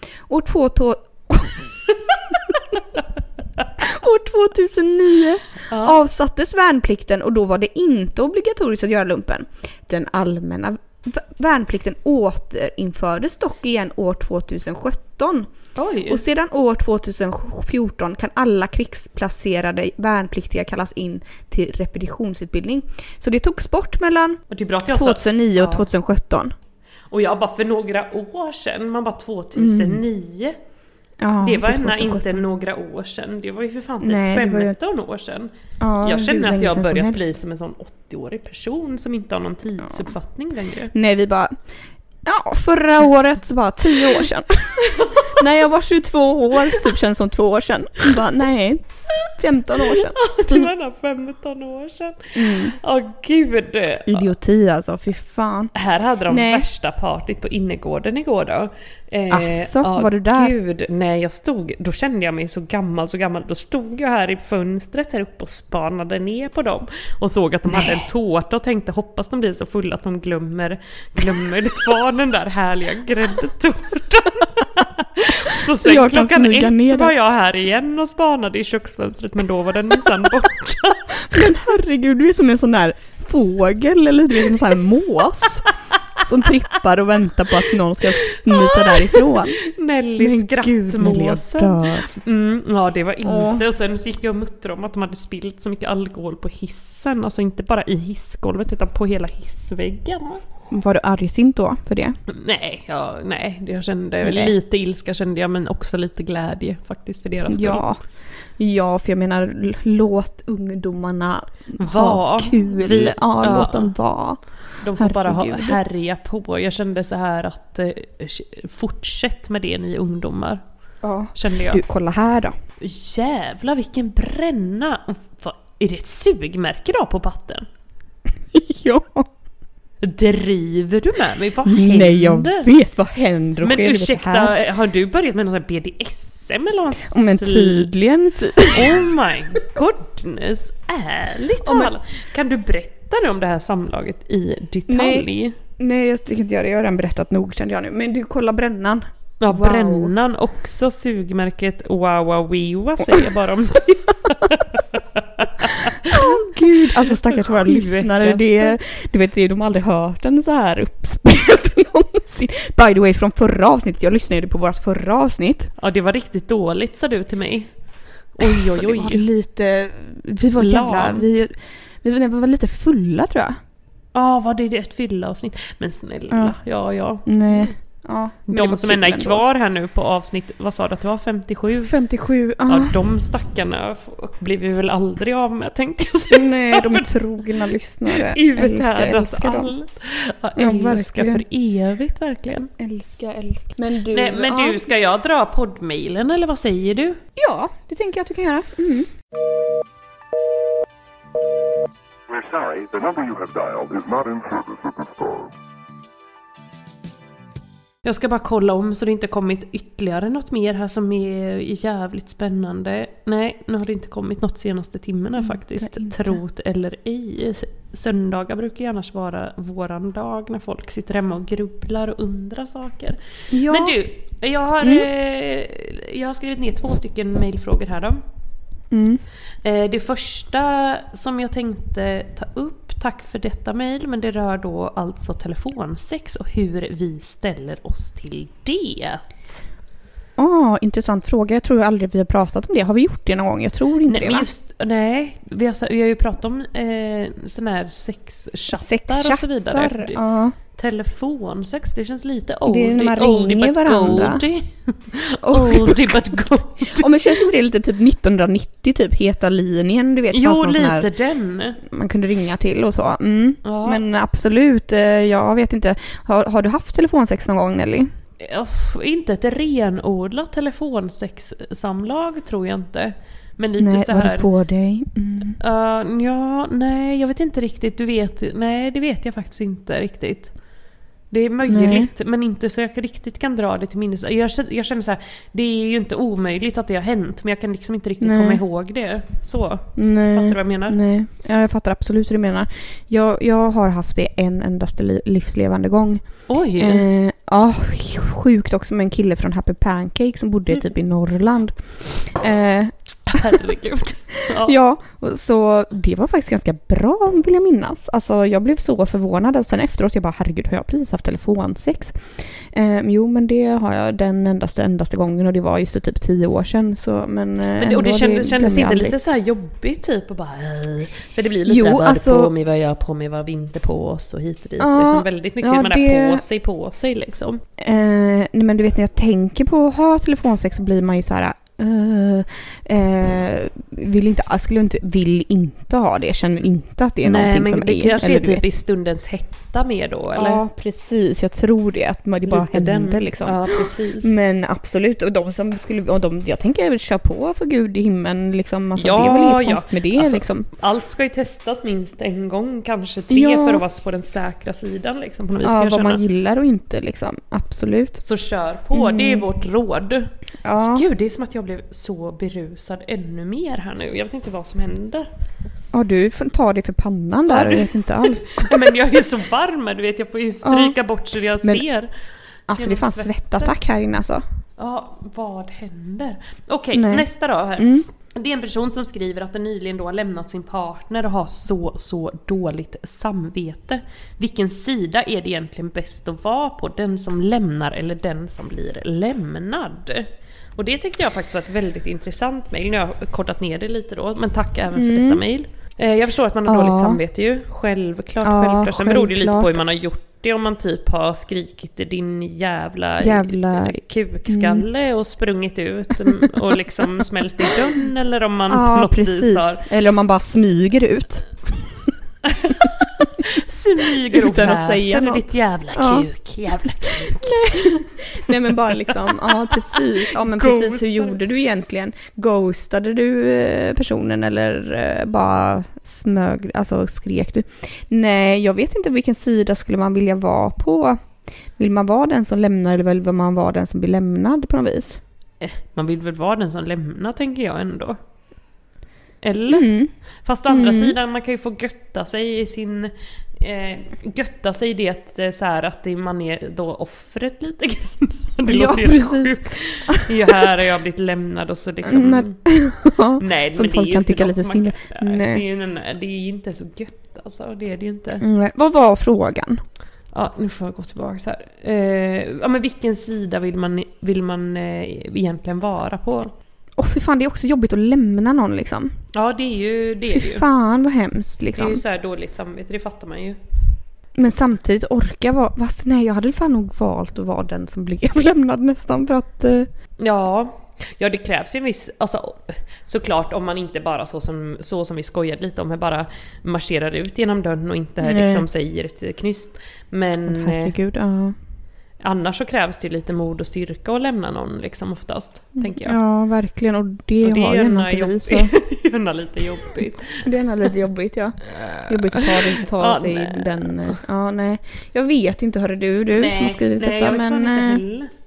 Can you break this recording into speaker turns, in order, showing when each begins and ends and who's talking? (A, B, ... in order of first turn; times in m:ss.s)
0:00.3-0:01.6 A
0:03.8-0:15.5 A
0:05.7-0:06.0 B
0:15.8-0:16.2 B
0:16.1-0:26.5 A
0:24.5-0:25.9 B
0:27.1-0:30.6 B
0:29.6-0:30.0 A
0:31.2-0:32.4 A
0:31.4-0:35.5 B
0:34.0-0:34.8 A
0:35.8-0:37.3 A
0:36.0-0:40.9 B
0:40.9-0:41.6 A
0:42.2-0:50.7 A
0:45.0-0:45.4 B
0:49.8-0:54.3 B
0:52.3-0:52.8 A
0:54.1-0:55.7 A
0:55.7-1:21.2 B
0:56.3-0:56.7 A
0:59.3-1:00.5 A
1:07.7-1:08.0 A
1:15.5-1:17.1 A
1:21.2-1:29.6 A
1:28.4-1:40.4 B
1:30.2-1:32.1 A
1:33.2-1:33.6 A
1:40.7-1:42.2 A
1:42.3-1:47.9 B
1:44.2-1:44.5 A
1:47.5-1:48.0 A
1:48.6-1:54.4 A
1:51.8-1:53.9 B
1:54.8-2:00.6 B
1:55.0-1:55.8 A
2:01.0-2:02.5 A
2:01.4-2:01.8 B
2:02.8-2:07.7 B
2:08.5-2:09.3 A
2:10.0-2:12.7 B
2:11.6-2:14.5 A
2:13.6-2:17.9 B
2:17.0-2:19.1 A
2:18.7-2:25.6 B
2:21.6-2:21.9 A
2:24.9-2:25.3 A
2:25.8-2:30.1 A
2:29.4-2:38.8 B
2:35.9-2:45.7 A
2:45.8-2:47.7 B
2:48.3-2:49.2 B
2:48.4-2:53.6 A
2:50.6-2:51.4 B
2:54.1-2:57.7 B
2:56.3-2:56.6 A
2:57.3-2:59.4 A
2:58.5-3:01.9 B
3:01.8-3:03.0 A
3:02.7-3:07.1 B
3:06.3-3:09.7 A
3:08.1-3:12.7 B
3:10.6-3:11.4 A
3:12.8-3:14.8 A
3:14.1-3:17.2 B
3:17.4-3:19.1 A
3:22.3-3:25.5 C
3:28.0-3:48.2 B
3:35.4-3:36.3 A
3:43.5-3:44.0 A
3:44.8-3:45.1 A
3:48.9-3:49.2 A
3:49.6-3:59.6 B
4:00.4-4:04.5 A
4:04.1-4:10.2 B
4:08.7-4:10.6 A
4:10.7-4:17.4 B
4:12.7-4:14.4 A
4:15.4-4:16.3 A
4:16.8-4:21.1 A
4:20.3-4:21.8 B
4:21.8-4:28.1 A
4:23.6-4:24.0 B
4:28.4-4:34.5 B
4:33.8-4:35.6 A
4:35.6-4:40.6 B
4:41.3-4:51.0 B
4:41.7-4:42.1 A
4:48.2-4:48.6 A
4:50.0-5:03.6 A
4:56.5-4:57.1 B
5:03.3-5:04.8 B
5:04.5-5:12.2 A
5:12.7-5:19.2 A
5:17.8-5:27.6 B
5:21.7-5:22.5 A
5:24.8-5:26.4 A
5:27.8-5:38.6 A
5:37.2-5:40.6 B
5:40.4-5:50.7 A
5:42.5-5:44.3 B
5:49.0-5:56.2 B
5:53.3-5:53.8 A
5:55.6-5:58.2 A
5:58.2-6:05.3 B
5:58.9-5:59.5 A
6:00.6-6:01.0 A
6:05.9-6:08.7 A
6:07.5-6:12.1 B
6:10.6-6:11.0 A
6:12.7-6:14.4 A
6:12.8-6:13.8 B
6:14.8-6:49.8 B
6:16.9-6:18.1 A
6:34.9-6:35.4 A
6:36.7-6:37.2 A
6:38.4-6:39.7 A
6:43.2-6:44.9 A
6:48.7-6:51.5 A
6:52.5-6:52.9 B
6:53.4-6:58.1 B
6:54.3-6:56.3 A
6:57.1-7:11.2 A
6:59.0-7:01.4 B
7:11.8-7:15.2 A
7:15.6-7:18.2 B
7:19.4-7:19.9 B
7:19.7-7:20.1 A
7:20.4-7:32.6 B
7:20.7-7:21.2 A
7:28.6-7:30.3 A
7:32.0-7:35.6 A
7:33.4-7:38.4 B
7:38.4-7:39.8 A
7:40.3-7:46.5 B
7:47.0-7:49.1 A
7:49.3-7:50.6 B
7:50.3-7:52.0 A
7:51.7-7:53.6 B
7:54.4-7:59.9 A
8:00.2-8:11.0 B
8:08.2-8:08.7 A
8:10.4-8:11.6 A
8:12.2-8:16.2 B
8:15.8-8:18.7 A
8:17.4-8:20.5 B
8:20.4-8:28.0 A
8:21.8-8:24.2 B
8:26.3-8:28.3 B